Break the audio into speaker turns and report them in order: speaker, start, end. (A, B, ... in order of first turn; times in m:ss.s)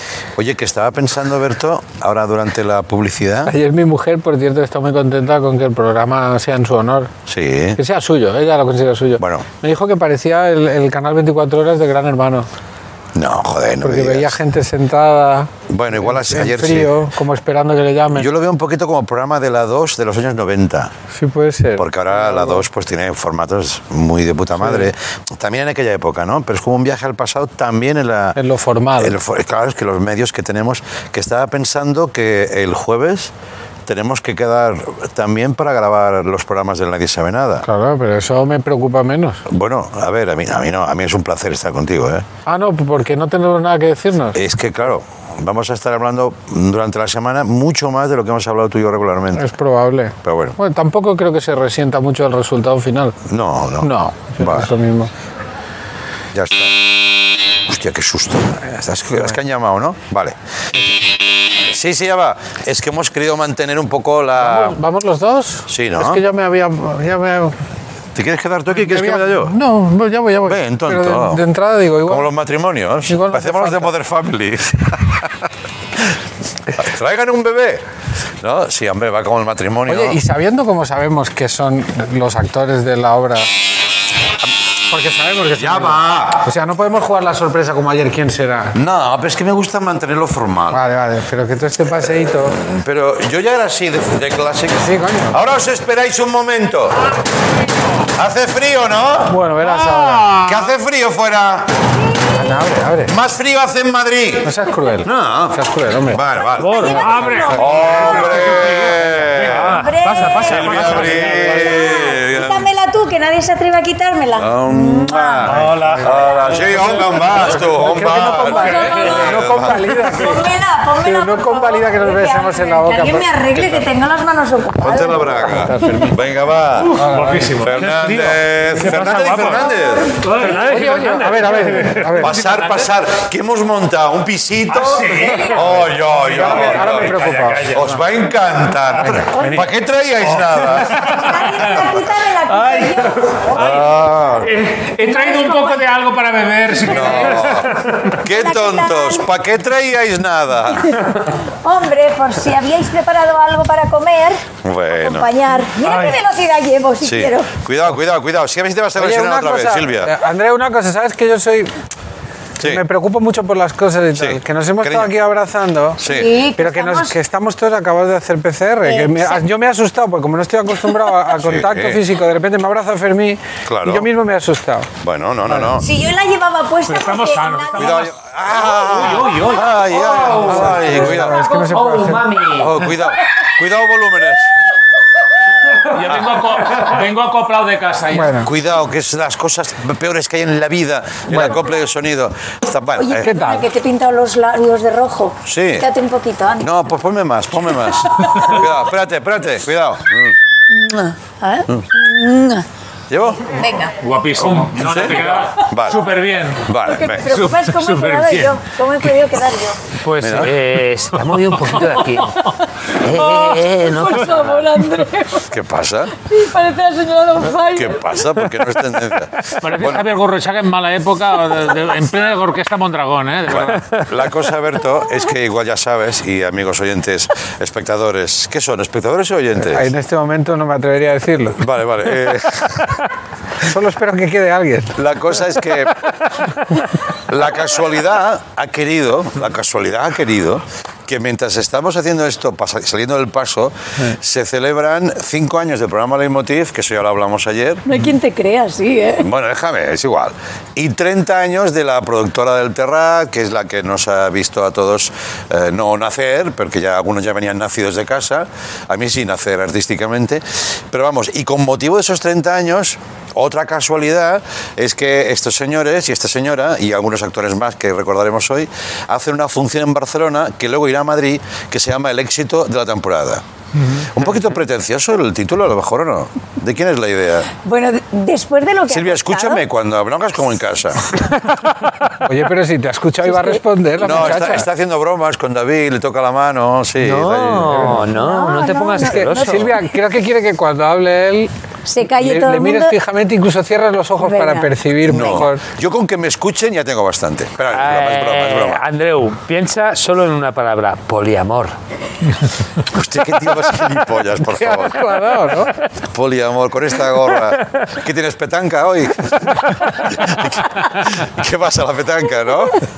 0:00.4-0:03.5 A
0:03.4-0:07.1 B
0:07.3-0:07.8 A
0:07.8-0:12.5 B
0:09.2-0:09.4 A
0:13.1-0:14.4 A
0:13.8-0:18.3 B
0:15.7-0:16.9 A
0:18.1-0:20.9 A
0:21.1-0:22.6 B
0:21.8-0:28.4 A
0:24.6-0:24.9 B
0:28.4-0:29.2 B
0:29.0-0:33.3 A
0:33.8-0:37.6 A
0:37.6-0:39.4 B
0:39.5-0:42.2 A
0:42.4-0:44.4 B
0:44.3-0:49.5 A
0:49.3-0:53.2 B
0:50.2-0:50.5 A
0:53.3-0:54.7 A
0:53.8-0:55.1 B
0:56.3-0:56.7 A
0:57.6-1:00.4 A
1:01.7-1:04.8 A
1:04.4-1:07.5 B
1:05.7-1:06.2 A
1:08.1-1:09.5 A
1:08.7-1:12.3 B
1:10.4-1:11.4 A
1:12.0-1:15.3 A
1:13.1-1:13.9 B
1:16.7-1:17.8 A
1:18.4-1:20.2 A
1:19.9-1:23.5 B
1:24.9-1:28.7 B
1:25.5-1:26.5 A
1:28.7-1:30.8 A
1:30.7-1:32.6 B
1:32.6-1:37.1 A
1:34.8-1:35.4 B
1:38.1-1:39.4 A
1:39.2-1:40.4 B
1:39.8-1:40.5 C
1:40.4-1:41.7 A
1:42.3-1:43.1 B
1:43.1-1:45.6 A
1:44.4-1:46.2 B
1:46.1-1:49.8 A
1:46.6-1:47.4 D
1:46.7-1:48.5 E
1:46.7-1:51.7 C
1:49.5-1:51.4 D
1:49.7-1:55.5 E
1:50.4-1:52.7 A
1:54.4-2:00.1 A
1:55.5-2:00.4 B
1:55.6-1:56.1 C
1:56.2-1:56.5 E
1:58.3-2:05.7 E
2:01.0-2:03.3 B
2:04.8-2:07.0 A
2:05.7-2:06.1 B
2:06.9-2:07.6 B
2:07.0-2:09.6 C
2:07.6-2:10.2 A
2:10.2-2:12.9 C
2:10.3-2:11.8 D
2:10.6-2:12.3 B
2:12.2-2:21.1 A
2:14.8-2:17.9 C
2:15.2-2:15.6 D
2:16.2-2:17.7 B
2:17.2-2:17.5 D
2:19.0-2:19.7 B
2:20.2-2:21.8 C
2:21.0-2:24.0 E
2:22.5-2:23.8 C
2:23.5-2:24.5 A
2:24.4-2:27.8 C
2:25.0-2:25.9 E
2:26.8-2:31.0 A
2:28.2-2:29.3 E
2:31.5-2:34.4 E
2:34.6-2:35.3 A
2:35.0-2:37.5 E
2:35.8-2:36.2 C
2:37.0-2:40.1 A
2:39.0-2:41.7 B
2:42.6-2:54.9 B
2:44.2-2:45.1 A
2:46.0-2:46.3 A
2:46.0-2:47.2 E
2:48.8-2:49.4 E
2:51.4-2:52.0 A
2:53.6-2:54.1 A
2:55.0-2:55.9 A
2:55.8-2:58.1 E
2:56.9-2:58.1 C
2:57.7-3:01.4 A
2:58.8-3:01.0 C
3:00.4-3:02.3 B
3:01.1-3:02.7 D
3:01.7-3:02.6 C
3:02.5-3:04.5 A
3:05.9-3:08.3 C
3:08.1-3:08.5 B
3:08.4-3:13.3 A
3:11.3-3:11.5 B
3:13.0-3:16.7 E
3:13.2-3:13.6 B
3:15.4-3:15.9 A
3:16.6-3:20.4 A
3:20.7-3:22.6 E
3:23.1-3:23.5 A
3:23.4-3:23.9 E
3:24.0-3:26.7 C
3:24.5-3:26.1 A
3:26.6-3:27.3 A
3:26.8-3:29.8 E
3:27.2-3:28.6 C
3:30.0-3:32.4 D
3:30.2-3:30.5 A
3:33.0-3:34.7 D
3:33.1-3:35.5 E
3:35.5-3:36.1 A
3:36.3-3:38.2 E
3:37.7-3:40.1 A
3:39.6-3:43.9 C
3:43.5-3:49.9 A
3:49.6-3:51.6 B
3:51.6-3:53.0 A
3:53.6-3:55.0 B
3:55.0-3:56.0 A
3:57.3-4:07.8 A
4:07.8-4:09.2 E
4:09.2-4:33.4 A
4:34.0-4:37.5 A
4:37.6-4:39.6 E
4:38.9-4:41.1 A
4:42.2-4:44.6 B
4:43.2-4:44.3 E
4:44.0-4:48.0 A
4:47.0-4:49.7 D
4:48.1-4:49.7 E
4:49.0-4:51.5 B
4:51.8-4:53.0 E
4:52.2-4:55.6 B
4:54.2-4:55.4 E
4:55.0-4:58.8 A
4:57.7-5:01.7 D
5:02.8-5:05.0 A
5:04.4-5:05.7 B
5:06.0-5:12.9 A